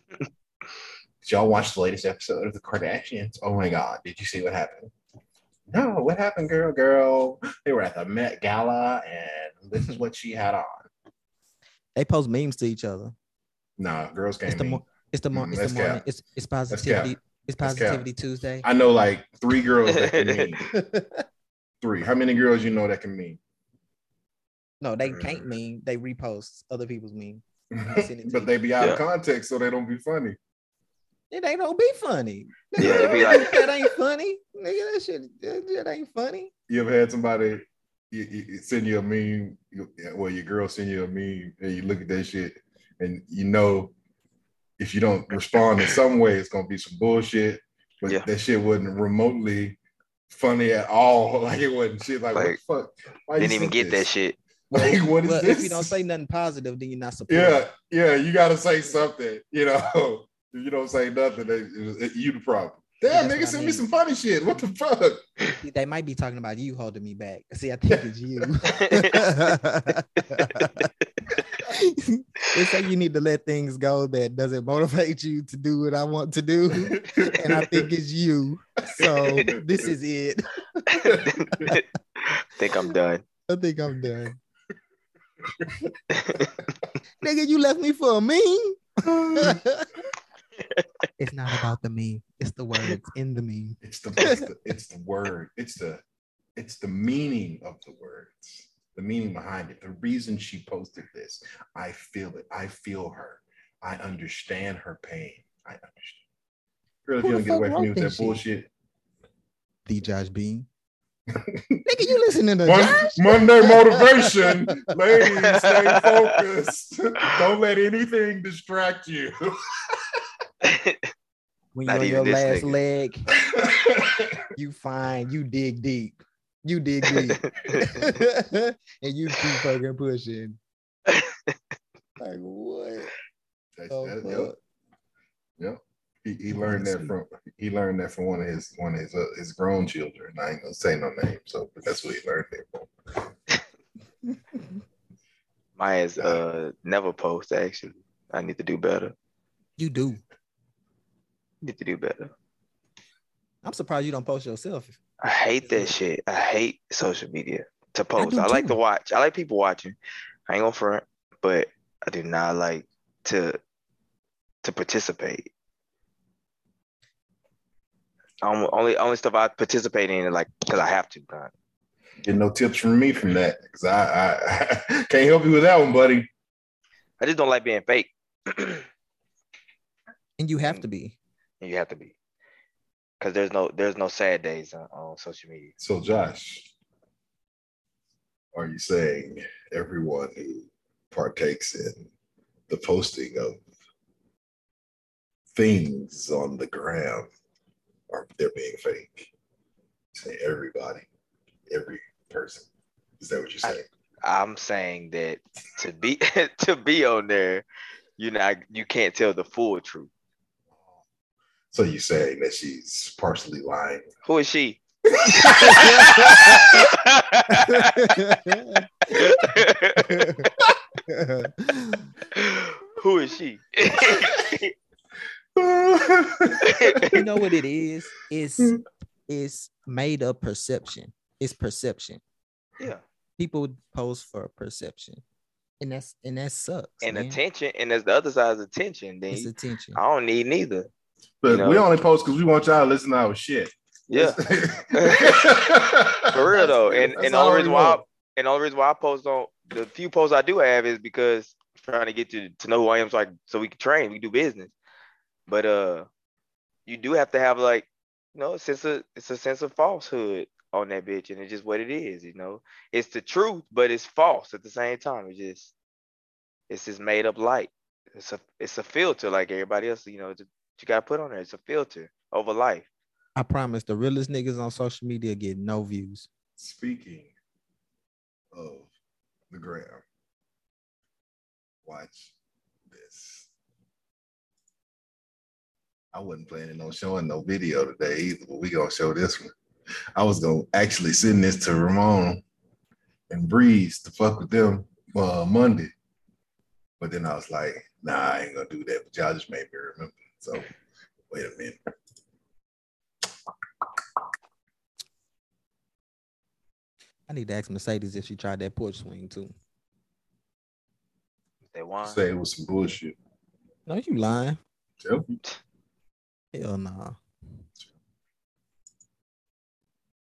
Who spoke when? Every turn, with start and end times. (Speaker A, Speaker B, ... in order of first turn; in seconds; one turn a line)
Speaker A: 1.2-4.9
Speaker A: 5.7-10.9
Speaker B: 11.9-13.1
Speaker A: 13.8-16.0
Speaker B: 14.5-18.6
Speaker A: 16.7-18.1
Speaker A: 18.6-20.7
Speaker C: 19.9-20.5
Speaker B: 20.7-21.2
Speaker A: 21.8-23.4
Speaker B: 24.8-28.5
Speaker A: 27.7-30.4
Speaker B: 31.3-36.5
Speaker A: 32.8-33.6
Speaker C: 32.8-33.5
Speaker A: 36.7-43.9
Speaker A: 44.8-54.1
Speaker C: 53.4-54.4
Speaker A: 54.7-56.0
Speaker B: 54.7-57.6
Speaker A: 57.3-65.2
Speaker B: 63.1-63.8
Speaker B: 65.6-70.9
Speaker C: 68.7-69.2
Speaker C: 70.6-70.9
Speaker B: 71.6-80.9
Speaker A: 76.8-77.9
Speaker A: 78.8-79.9
Speaker C: 80.9-83.2
Speaker A: 81.0-81.7
Speaker B: 83.5-84.4
Speaker C: 86.1-86.6
Speaker B: 87.2-89.9
Speaker A: 89.0-89.6
Speaker C: 90.6-90.8
Speaker B: 91.2-94.4
Speaker A: 93.8-96.0
Speaker A: 96.5-106.2
Speaker A: 107.0-108.7
Speaker B: 107.2-108.4
Speaker B: 109.8-110.7
Speaker A: 111.3-111.8
Speaker B: 111.8-114.8
Speaker A: 112.6-120.2
Speaker C: 115.5-116.3
Speaker C: 120.6-121.0
Speaker B: 121.7-123.3
Speaker C: 121.9-122.8
Speaker A: 123.5-124.4
Speaker B: 124.5-130.6
Speaker C: 127.4-128.0
Speaker C: 131.1-131.6
Speaker B: 132.2-133.1
Speaker A: 133.8-134.5
Speaker B: 133.9-134.6
Speaker A: 135.6-142.9
Speaker B: 136.5-137.1
Speaker C: 145.8-149.1
Speaker A: 146.2-146.4
Speaker B: 149.8-150.2
Speaker C: 151.6-152.3
Speaker B: 153.6-155.0
Speaker C: 155.2-160.0
Speaker B: 155.6-155.9
Speaker B: 158.2-158.8
Speaker C: 160.5-163.6
Speaker C: 164.6-165.5
Speaker C: 168.4-171.5
Speaker A: 172.2-176.3
Speaker C: 177.2-178.8
Speaker B: 180.4-181.2
Speaker C: 181.6-182.1
Speaker C: 183.2-185.7
Speaker A: 185.8-186.7
Speaker A: 188.5-192.1
Speaker A: 192.7-193.6
Speaker A: 195.5-197.3
Speaker A: 198.1-199.3
Speaker A: 200.1-201.1
Speaker A: 201.7-202.7
Speaker A: 203.2-203.8
Speaker C: 203.6-207.6
Speaker C: 208.2-210.1
Speaker A: 211.7-214.1
Speaker C: 214.2-218.1
Speaker A: 215.2-216.1
Speaker B: 215.5-216.7
Speaker B: 217.5-218.8
Speaker C: 219.1-220.2
Speaker B: 220.0-220.5
Speaker B: 221.1-222.1
Speaker C: 222.3-224.7
Speaker A: 224.0-224.5
Speaker A: 225.6-227.2
Speaker C: 226.7-227.1
Speaker B: 227.1-232.2
Speaker B: 233.4-235.2
Speaker B: 235.8-237.4
Speaker C: 237.0-240.9
Speaker B: 239.3-240.0
Speaker A: 241.4-248.0
Speaker C: 241.5-241.8
Speaker C: 244.1-244.4
Speaker C: 244.9-245.4
Speaker C: 246.3-254.7
Speaker C: 255.5-256.1
Speaker C: 256.9-265.7
Speaker C: 266.7-272.9
Speaker B: 273.4-276.3
Speaker A: 276.6-277.3
Speaker A: 278.5-278.9
Speaker A: 279.5-280.0
Speaker A: 281.8-282.3
Speaker A: 282.9-283.5
Speaker A: 286.1-289.5
Speaker A: 290.1-292.4
Speaker A: 293.3-295.9
Speaker A: 297.0-300.7
Speaker A: 301.3-301.8
Speaker B: 307.3-309.5
Speaker C: 311.7-312.2
Speaker A: 312.0-313.1
Speaker B: 313.9-314.6
Speaker A: 315.0-315.4
Speaker B: 316.5-317.2